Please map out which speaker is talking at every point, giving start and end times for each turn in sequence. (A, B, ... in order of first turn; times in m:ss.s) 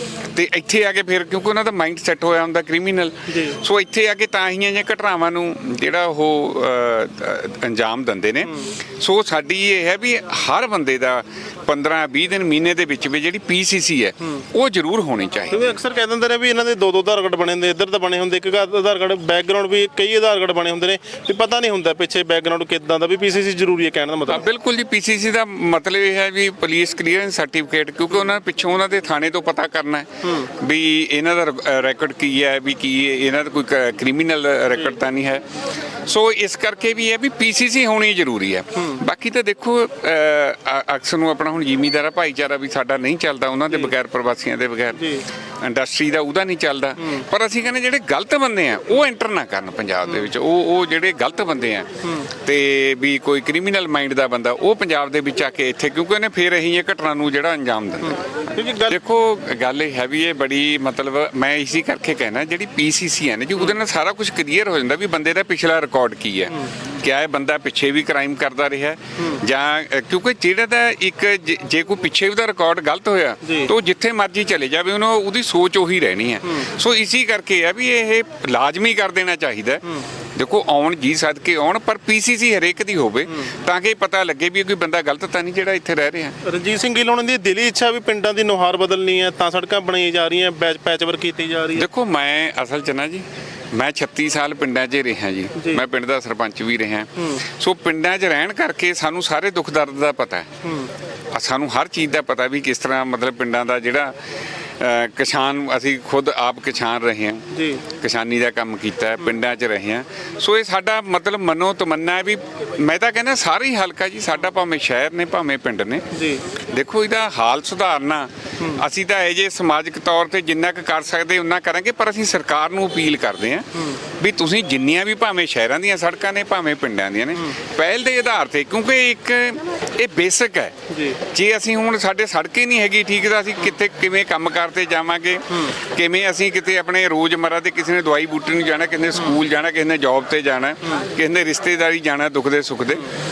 0:00.3-0:15.7 A
0:03.3-0:03.6 B
0:08.4-0:08.7 B
0:15.5-0:24.5 B
0:24.3-0:35.4 A
0:30.2-0:30.5 B
0:36.0-0:45.0 A
0:38.8-0:39.0 B
0:44.9-0:45.2 B
0:45.6-0:51.9 A
0:47.0-0:47.2 B
0:50.0-0:50.3 B
0:52.0-0:52.3 B
0:52.4-0:58.2 A
0:58.5-0:59.0 B
0:58.9-1:19.8 A
1:13.4-1:13.7 B
1:20.3-1:26.4 A
1:26.4-1:31.9 B
1:31.8-1:40.5 A
1:35.6-1:35.8 B
1:37.2-1:37.4 B
1:40.6-1:40.9 B
1:41.3-1:44.2 A
1:44.8-1:56.0 A
1:47.5-1:47.8 B
1:56.1-1:56.4 B
1:56.7-2:10.8 A
1:58.6-1:58.8 B
2:10.9-2:11.2 B
2:11.3-2:23.1 A